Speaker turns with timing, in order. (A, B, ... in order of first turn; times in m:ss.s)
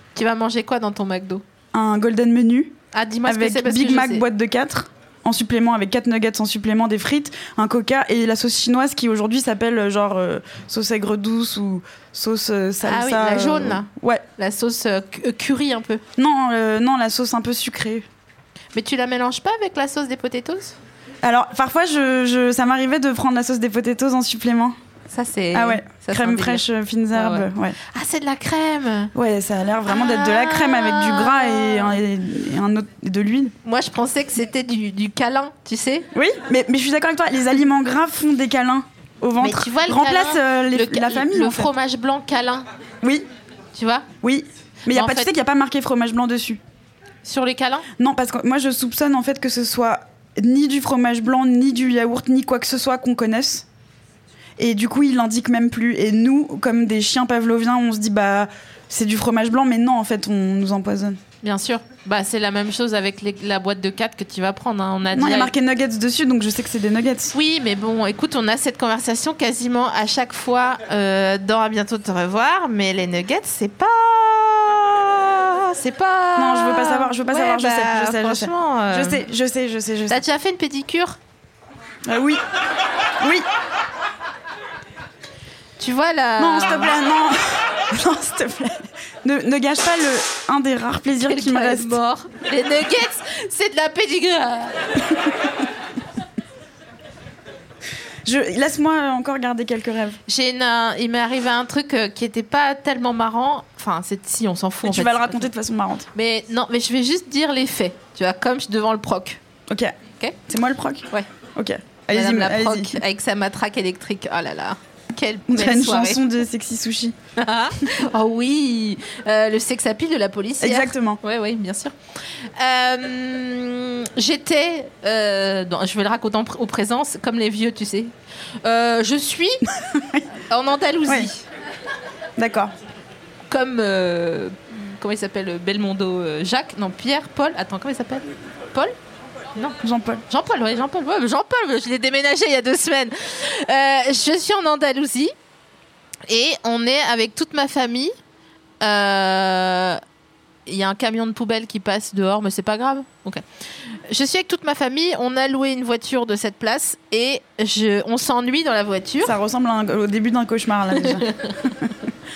0:00.2-0:01.4 A
0:01.7-0:14.2 B
0:02.9-0:04.2 A
0:12.8-0:16.0 A
0:16.2-0:18.1 B
0:18.8-0:20.8 A
0:21.2-0:24.8 B
0:25.1-0:29.1 A
0:25.5-0:27.8 B
0:29.1-0:33.6 B
0:29.9-0:32.0 A
0:33.6-0:36.1 A
0:36.1-0:41.7 B
0:39.4-0:42.7 A
0:43.7-0:44.1 A
0:44.2-0:46.6 B
0:44.9-0:45.3 A
0:47.2-0:47.9 A
0:48.0-0:53.7 B
0:54.6-1:01.2 B
1:01.4-1:05.5 A
1:05.1-1:07.3 B
1:07.3-1:19.2 A
1:16.4-1:20.2 B
1:20.1-1:21.2 A
1:22.1-1:22.4 B
1:23.2-1:23.5 B
1:25.8-1:26.9 A
1:26.4-1:32.0 B
1:31.2-1:35.2 A
1:38.2-1:40.2 B
1:40.3-1:45.5 A
1:44.8-1:46.1 B
1:46.2-1:49.4 A
1:49.7-1:50.0 B
1:50.5-1:53.0 B
1:52.1-1:56.2 A
1:55.5-1:57.2 B
1:57.4-2:08.1 A
2:00.6-2:01.2 B
2:08.6-2:09.6 A
2:09.8-2:10.2 B
2:10.5-2:11.4 A
2:12.4-2:12.7 B
2:13.5-2:19.0 A
2:19.8-2:20.2 B
2:20.3-2:25.3 A
2:26.3-2:28.1 A
2:28.8-2:30.0 A
2:30.7-2:39.4 A
2:39.2-2:41.3 B
2:41.0-2:42.0 A